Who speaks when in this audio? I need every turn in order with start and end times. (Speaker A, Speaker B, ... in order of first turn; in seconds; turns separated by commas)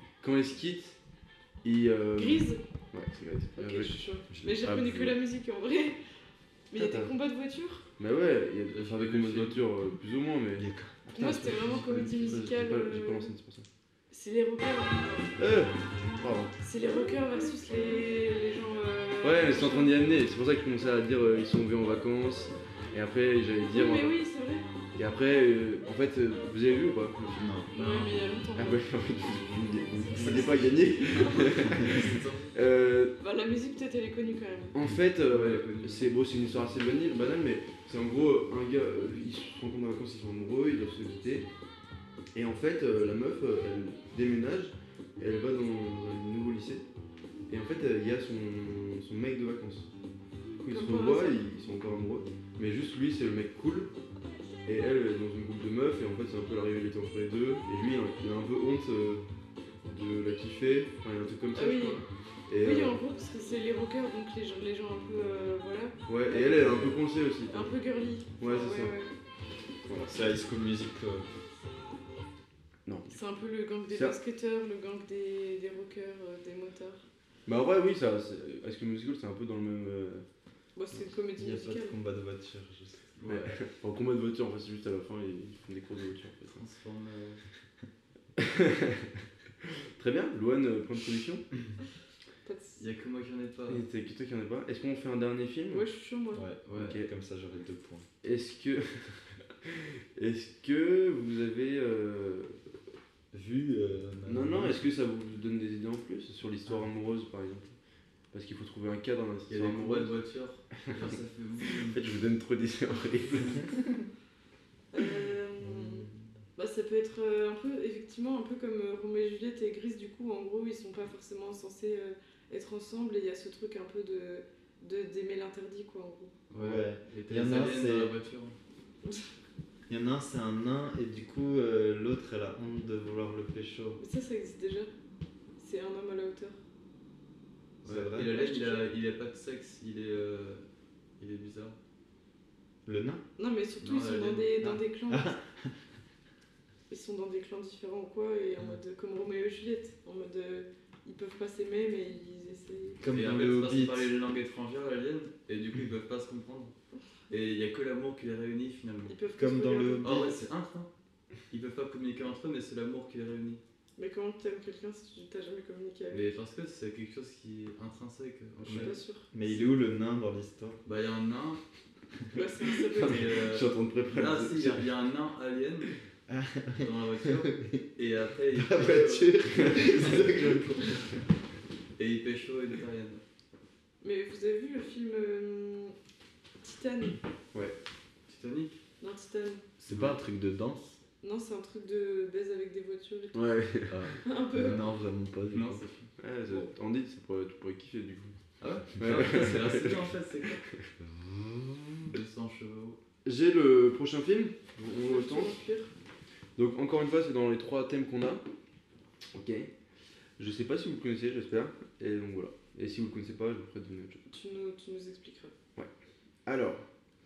Speaker A: 0.2-1.0, Speaker A: 1.6-3.9, Speaker B: 2.2-2.6, Speaker B: 3.6-6.0, Speaker C: 4.3-5.1, Speaker A: 4.7-5.1, Speaker B: 6.7-7.9, Speaker A: 6.8-7.1, Speaker A: 8.0-13.7, Speaker D: 8.7-9.7, Speaker C: 10.6-11.0, Speaker B: 11.1-13.3, Speaker D: 11.6-12.4, Speaker B: 14.1-15.3, Speaker A: 15.4-16.5, Speaker B: 16.6-20.0, Speaker A: 19.2-24.1, Speaker B: 23.7-24.7, Speaker A: 24.9-27.6, Speaker C: 27.3-27.7, Speaker D: 27.7-28.4, Speaker B: 27.7-28.9, Speaker A: 28.5-33.1, Speaker B: 30.1-31.6, Speaker D: 31.1-32.5, Speaker B: 33.2-34.8, Speaker A: 34.7-41.5, Speaker D: 35.3-36.1, Speaker A: 42.4-46.8, Speaker A: 47.5-49.9, Speaker A: 50.6-53.9, Speaker B: 50.7-51.5, Speaker A: 54.6-59.2, Speaker A: 59.9-63.0, Speaker B: 61.5-62.0, Speaker B: 62.6-69.1, Speaker A: 66.1-67.7, Speaker A: 68.4-69.0, Speaker A: 69.9-70.3, Speaker C: 70.1-71.3, Speaker A: 72.9-73.2, Speaker B: 73.1-77.0, Speaker A: 73.9-74.2, Speaker A: 77.5-80.2, Speaker B: 80.8-82.0, Speaker C: 81.4-83.1, Speaker D: 83.2-83.6, Speaker A: 83.2-86.6, Speaker D: 86.6-87.4, Speaker A: 88.4-89.0, Speaker A: 90.0-91.5, Speaker B: 92.4-92.8, Speaker D: 92.8-93.8, Speaker A: 93.7-95.8, Speaker B: 95.7-96.5, Speaker C: 96.3-98.1, Speaker A: 96.7-97.1, Speaker A: 98.2-102.6, Speaker C: 103.3-104.8, Speaker A: 104.3-107.8, Speaker A: 108.3-110.2, Speaker D: 109.5-112.0, Speaker A: 111.9-113.7, Speaker B: 114.9-126.3, Speaker C: 115.6-116.2, Speaker D: 126.5-128.6, Speaker C: 126.6-128.1, Speaker C: 129.9-134.0, Speaker B: 134.0-134.9, Speaker B: 135.6-136.6, Speaker C: 137.8-138.3, Speaker D: 137.8-140.6, Speaker B: 138.3-138.9, Speaker D: 141.2-141.8, Speaker C: 142.9-143.2, Speaker B: 143.4-145.4, Speaker D: 143.8-144.5, Speaker C: 144.6-145.7, Speaker B: 146.9-153.0, Speaker C: 153.0-154.1, Speaker D: 153.1-156.7, Speaker D: 157.3-159.2, Speaker B: 159.1-160.4, Speaker C: 159.3-160.4, Speaker D: 160.0-160.9, Speaker D: 161.5-163.6, Speaker B: 164.0-166.3, Speaker D: 166.1-169.5, Speaker C: 168.7-170.8, Speaker B: 168.7-169.3, Speaker D: 170.8-171.6, Speaker B: 172.3-173.3, Speaker A: 172.9-174.9, Speaker D: 173.0-175.9, Speaker C: 176.3-177.8, Speaker D: 176.8-180.3, Speaker C: 178.5-181.2, Speaker A: 179.5-180.0, Speaker D: 182.0-183.2, Speaker B: 184.0-185.9, Speaker B: 186.6-187.2, Speaker D: 188.3-188.8, Speaker B: 189.0-189.6, Speaker C: 189.8-191.0, Speaker D: 189.9-190.2, Speaker B: 191.2-193.4, Speaker A: 193.3-194.2, Speaker C: 193.9-195.8, Speaker B: 194.2-194.8, Speaker D: 195.5-196.1, Speaker A: 196.2-198.4, Speaker D: 198.6-200.7, Speaker A: 198.9-200.9, Speaker C: 201.0-202.2, Speaker D: 202.1-203.0, Speaker A: 203.2-205.6, Speaker B: 204.9-205.9, Speaker A: 206.6-208.4, Speaker A: 209.3-209.7, Speaker A: 210.4-214.2, Speaker B: 214.3-215.5, Speaker A: 216.5-216.8